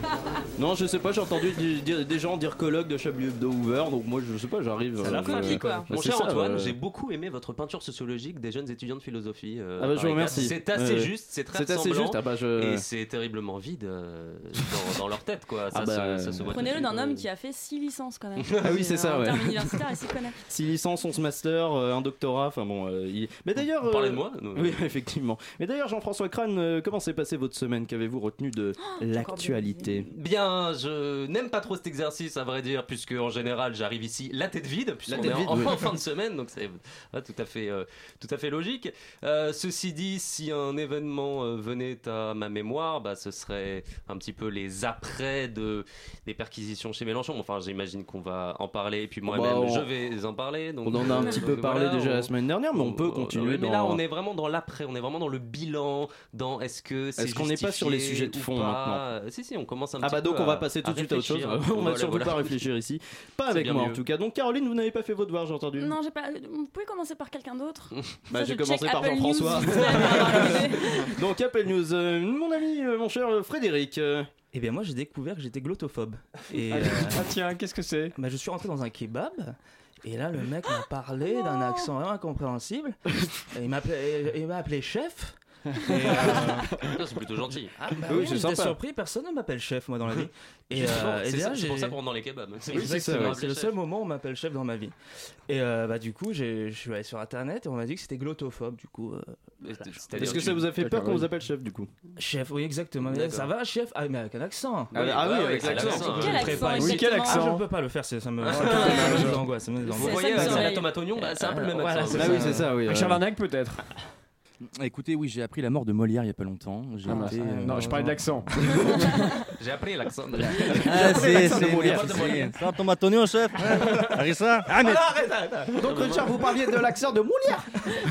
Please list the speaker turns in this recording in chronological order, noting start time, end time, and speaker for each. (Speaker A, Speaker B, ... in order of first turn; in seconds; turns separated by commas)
Speaker A: 0.6-6.7, Speaker B: 5.0-17.2, Speaker C: 5.0-5.9, Speaker A: 9.8-12.8, Speaker A: 15.7-16.5, Speaker C: 16.4-20.4, Speaker A: 18.5-19.8, Speaker A: 20.4-30.1, Speaker B: 23.7-24.8, Speaker C: 28.8-30.0, Speaker B: 30.1-62.6, Speaker A: 35.1-35.9, Speaker A: 49.3-49.9, Speaker A: 50.8-54.0, Speaker C: 51.1-51.4, Speaker A: 57.2-59.0, Speaker A: 60.0-65.9, Speaker B: 63.5-64.0, Speaker C: 65.8-71.2, Speaker A: 68.3-74.3, Speaker B: 69.8-70.2, Speaker D: 74.5-77.3, Speaker E: 76.6-78.1, Speaker D: 78.1-86.7, Speaker E: 85.7-87.0, Speaker B: 86.0-87.7, Speaker D: 87.8-92.0, Speaker A: 88.1-88.8, Speaker B: 90.7-93.8, Speaker E: 92.7-93.3, Speaker A: 92.7-93.4, Speaker D: 93.2-94.9, Speaker D: 95.5-100.5, Speaker B: 99.6-100.7, Speaker A: 100.2-101.9, Speaker E: 100.5-101.3, Speaker D: 102.2-104.9, Speaker B: 103.0-103.5, Speaker A: 104.9-106.7, Speaker B: 104.9-107.0, Speaker D: 105.6-105.9, Speaker C: 105.8-107.5, Speaker E: 106.7-107.7, Speaker D: 106.8-112.6, Speaker B: 108.4-109.4, Speaker E: 108.5-109.4, Speaker C: 108.7-111.0, Speaker B: 109.9-112.6, Speaker A: 112.1-113.2, Speaker E: 112.5-113.8, Speaker F: 114.6-118.5, Speaker E: 117.0-119.3, Speaker D: 117.3-118.1, Speaker B: 119.5-122.5, Speaker A: 120.7-122.3, Speaker F: 120.8-125.1, Speaker D: 124.7-126.1, Speaker A: 125.8-127.3, Speaker B: 125.8-126.4, Speaker D: 126.7-127.6